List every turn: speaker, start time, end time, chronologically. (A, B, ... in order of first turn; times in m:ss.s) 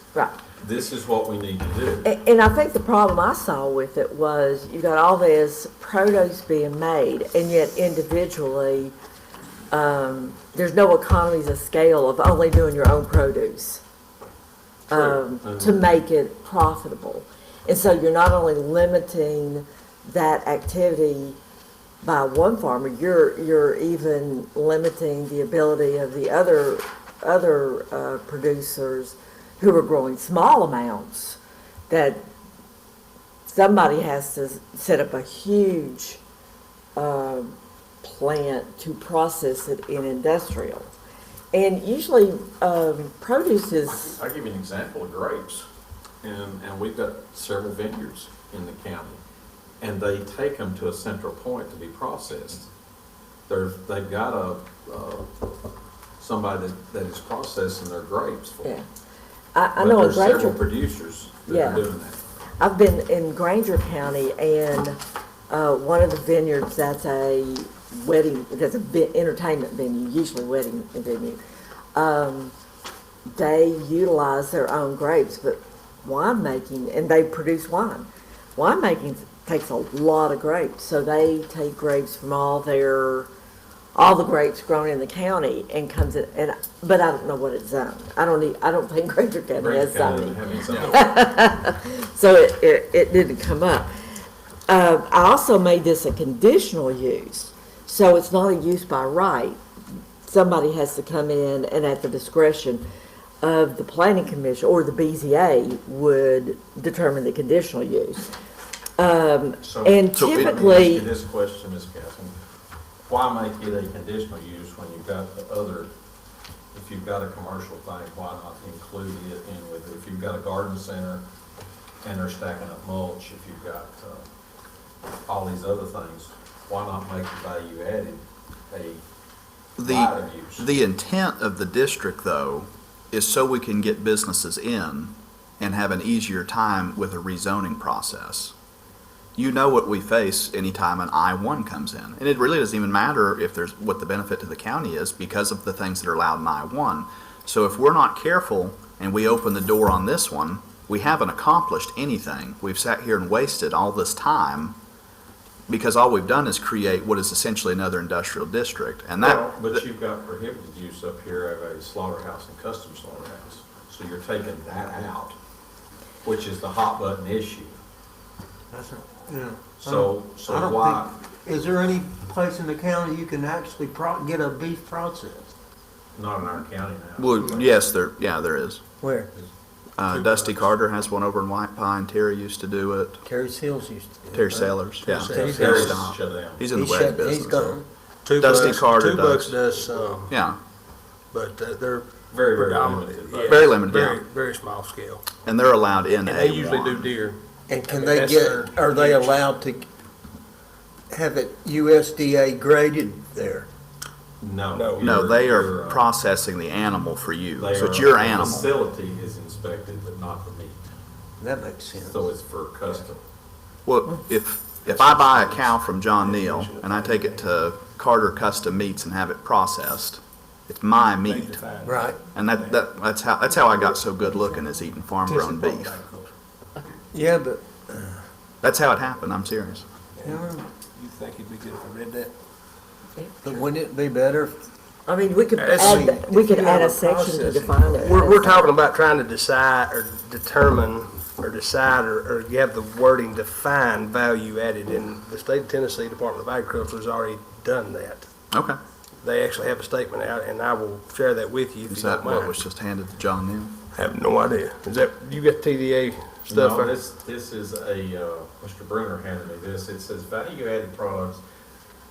0:00.6-0:02.1 A
0:02.0-0:08.9 B
0:09.7-0:13.8 B
0:14.9-0:21.4 B
0:14.9-0:15.8 A
0:22.0-0:32.3 B
0:33.4-0:36.2 B
0:37.0-0:40.9 B
0:41.5-0:44.2 B
0:43.9-0:45.7 A
0:46.2-0:49.2 A
0:49.8-0:52.7 A
0:53.5-0:55.4 A
0:56.2-0:58.7 A
0:59.5-1:00.6 B
0:59.8-1:02.2 A
1:01.5-1:01.8 B
1:02.6-1:05.0 B
1:05.5-1:11.4 B
1:11.9-1:12.5 B
1:13.3-1:23.3 B
1:23.9-1:33.9 B
1:29.5-1:31.2 A
1:34.7-1:39.6 B
1:40.2-1:42.8 B
1:43.4-1:48.2 B
1:49.0-1:51.1 B
1:49.6-1:52.3 A
1:50.2-1:50.7 C
1:53.1-1:55.9 A
1:56.7-2:01.2 A
2:02.0-2:04.3 A
2:05.2-2:09.0 A
2:09.8-2:18.5 C
2:09.8-2:10.7 A
2:19.4-2:34.8 C
2:35.7-2:39.8 C
2:39.2-2:45.3 A
2:46.2-2:47.8 A
2:48.7-2:55.5 D
2:49.8-2:51.1 A
2:56.1-2:57.5 A
2:57.2-2:58.8 C
2:59.0-2:59.3 D
3:00.0-3:03.2 C
3:00.1-3:00.6 E
3:03.2-3:06.0 D
3:04.3-3:07.8 C
3:05.0-3:06.0 E
3:05.3-3:06.6 A
3:06.7-3:07.8 D
3:08.2-3:10.4 E
3:08.4-3:09.6 C
3:08.5-3:08.8 D
3:10.3-3:10.6 C
3:11.3-3:15.4 E
3:12.3-3:13.7 A
3:13.5-3:14.2 C
3:15.4-3:17.1 C
3:16.2-3:19.5 E
3:17.7-3:19.9 D
3:21.1-3:23.7 D
3:24.4-3:26.1 A
3:24.7-3:25.1 E
3:25.0-3:28.7 C
3:27.6-3:30.8 A
3:31.4-3:32.2 D
3:32.0-3:33.2 A
3:33.8-3:41.6 C
3:34.9-3:35.6 E
3:36.2-3:37.5 E
3:41.2-3:42.7 E
3:41.8-3:42.2 D
3:42.3-3:46.0 C
3:45.2-3:46.3 E
3:47.1-3:48.2 D
3:48.6-3:49.8 C
3:50.2-3:52.3 E
3:50.2-3:50.7 D
3:53.2-3:53.6 B
3:53.4-3:54.6 D
3:55.0-3:58.7 B
3:55.6-3:56.8 E
3:55.7-3:58.3 D
3:58.0-4:08.3 E
4:08.5-4:08.8 C
4:09.2-4:12.6 E
4:11.9-4:13.7 C
4:13.9-4:17.0 E
4:16.5-4:21.4 A